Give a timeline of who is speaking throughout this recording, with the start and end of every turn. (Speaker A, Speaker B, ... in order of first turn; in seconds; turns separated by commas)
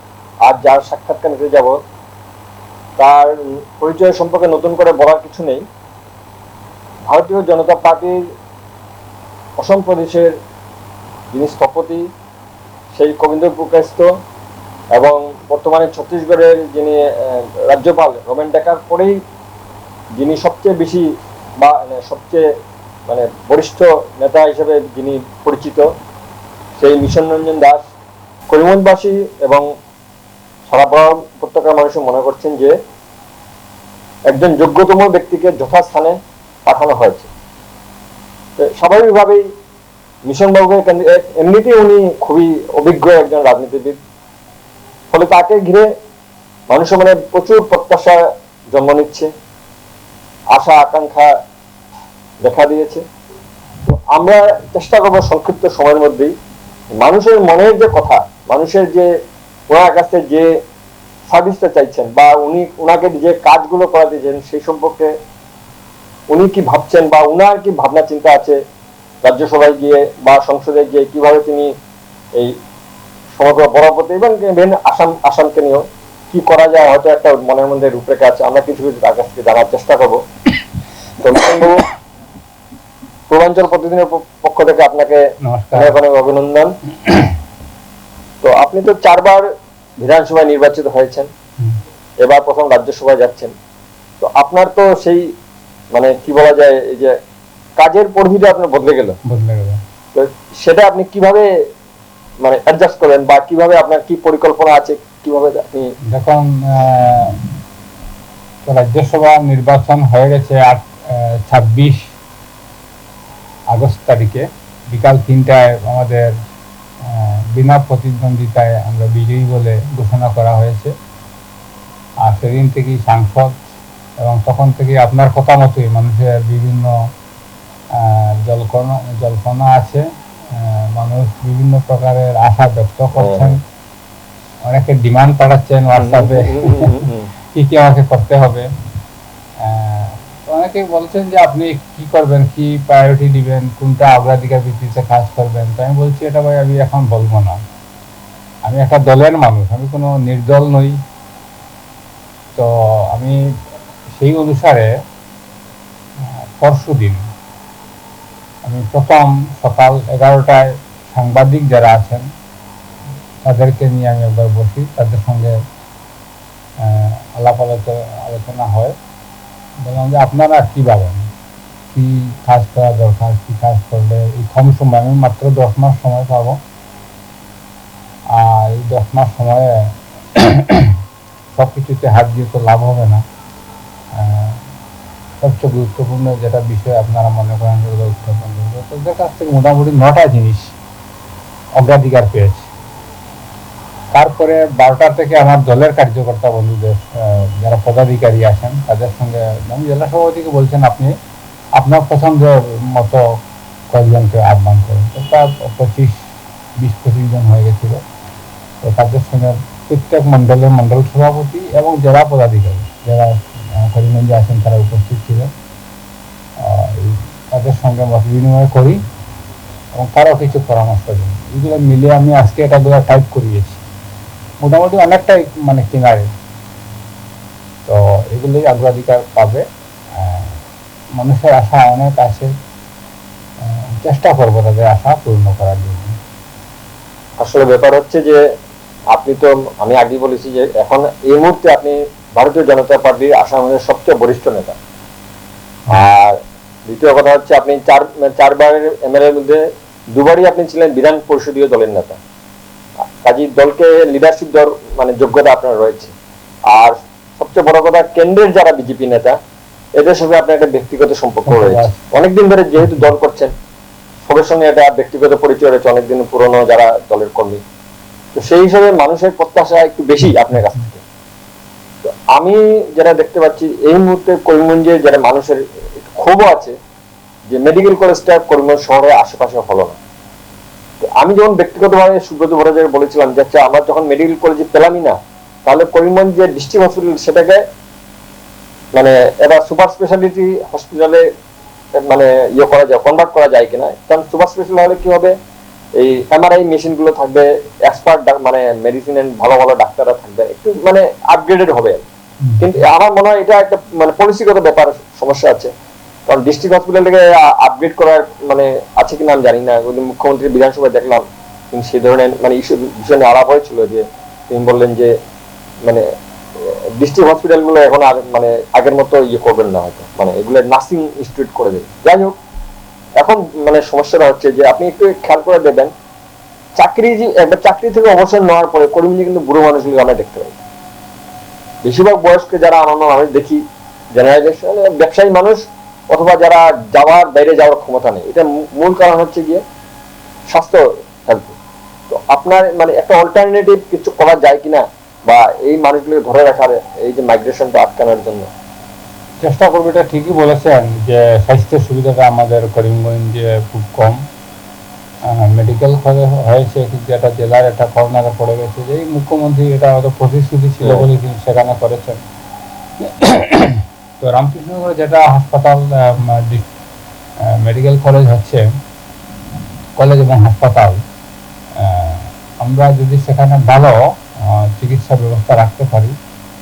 Speaker A: 0.4-1.8, Speaker A: 3.0-5.7, Speaker A: 7.1-8.3, Speaker A: 9.6-10.4, Speaker A: 11.3-12.1, Speaker A: 12.9-14.1, Speaker A: 14.9-19.2, Speaker A: 20.2-21.1, Speaker A: 21.6-22.5, Speaker A: 23.1-25.9, Speaker A: 26.8-27.9, Speaker A: 28.5-29.7, Speaker A: 30.7-32.7, Speaker A: 34.3-37.3, Speaker A: 38.6-39.5, Speaker A: 40.2-44.0, Speaker A: 45.1-45.9, Speaker A: 46.7-49.3, Speaker A: 50.5-51.3, Speaker A: 52.4-53.0, Speaker A: 53.9-56.3, Speaker A: 57.0-59.1, Speaker A: 59.7-60.5, Speaker A: 61.3-65.1, Speaker A: 66.3-68.6, Speaker A: 69.2-71.8, Speaker A: 73.4-80.2, Speaker A: 81.2-81.9, Speaker A: 83.3-86.7, Speaker B: 85.4-86.0, Speaker B: 87.0-87.4, Speaker A: 88.4-91.3, Speaker A: 92.2-93.5, Speaker A: 94.2-95.3, Speaker A: 95.9-97.2, Speaker A: 97.8-99.2, Speaker B: 99.2-99.8, Speaker A: 100.1-101.5, Speaker A: 102.4-106.0, Speaker B: 106.1-107.4, Speaker B: 108.7-112.1, Speaker B: 113.7-116.3, Speaker B: 117.0-120.9, Speaker B: 122.2-123.7, Speaker B: 124.2-127.0, Speaker B: 127.9-133.6, Speaker A: 133.2-133.6, Speaker B: 134.6-138.7, Speaker A: 135.9-137.3, Speaker B: 139.6-147.6, Speaker B: 148.7-151.0, Speaker B: 152.6-153.4, Speaker B: 154.1-154.9, Speaker B: 156.2-157.2, Speaker B: 158.6-162.3, Speaker B: 163.4-165.6, Speaker B: 166.8-169.0, Speaker B: 169.8-171.3, Speaker B: 171.9-176.6, Speaker B: 178.3-181.0, Speaker B: 181.5-183.2, Speaker B: 184.1-184.7, Speaker B: 185.4-190.8, Speaker B: 191.8-192.7, Speaker B: 194.1-201.1, Speaker B: 201.8-208.0, Speaker B: 208.8-215.5, Speaker B: 216.6-219.0, Speaker B: 219.9-223.8, Speaker B: 224.6-226.3, Speaker B: 227.9-230.6, Speaker B: 231.2-232.5, Speaker B: 233.6-236.2, Speaker A: 237.4-238.4, Speaker A: 239.1-244.8, Speaker A: 245.9-252.2, Speaker A: 253.2-256.1, Speaker A: 256.7-259.4, Speaker A: 260.0-263.5, Speaker B: 261.4-262.1, Speaker B: 262.8-263.1, Speaker A: 264.2-267.6, Speaker A: 268.4-271.0, Speaker B: 270.2-270.8, Speaker A: 272.0-276.8, Speaker A: 277.5-280.0, Speaker A: 281.0-287.6, Speaker A: 288.9-291.3, Speaker A: 292.0-295.4, Speaker A: 296.0-302.1, Speaker B: 302.4-302.8, Speaker A: 302.6-305.7, Speaker A: 306.3-315.1, Speaker A: 316.6-322.4, Speaker A: 323.2-325.9, Speaker A: 326.8-330.6, Speaker A: 331.8-333.6, Speaker A: 334.1-339.6, Speaker A: 340.5-341.6, Speaker A: 342.1-348.5, Speaker B: 349.4-354.2, Speaker B: 355.3-362.2, Speaker A: 360.8-361.1, Speaker B: 363.0-366.7, Speaker B: 367.5-368.6, Speaker B: 370.0-371.0, Speaker B: 371.8-376.1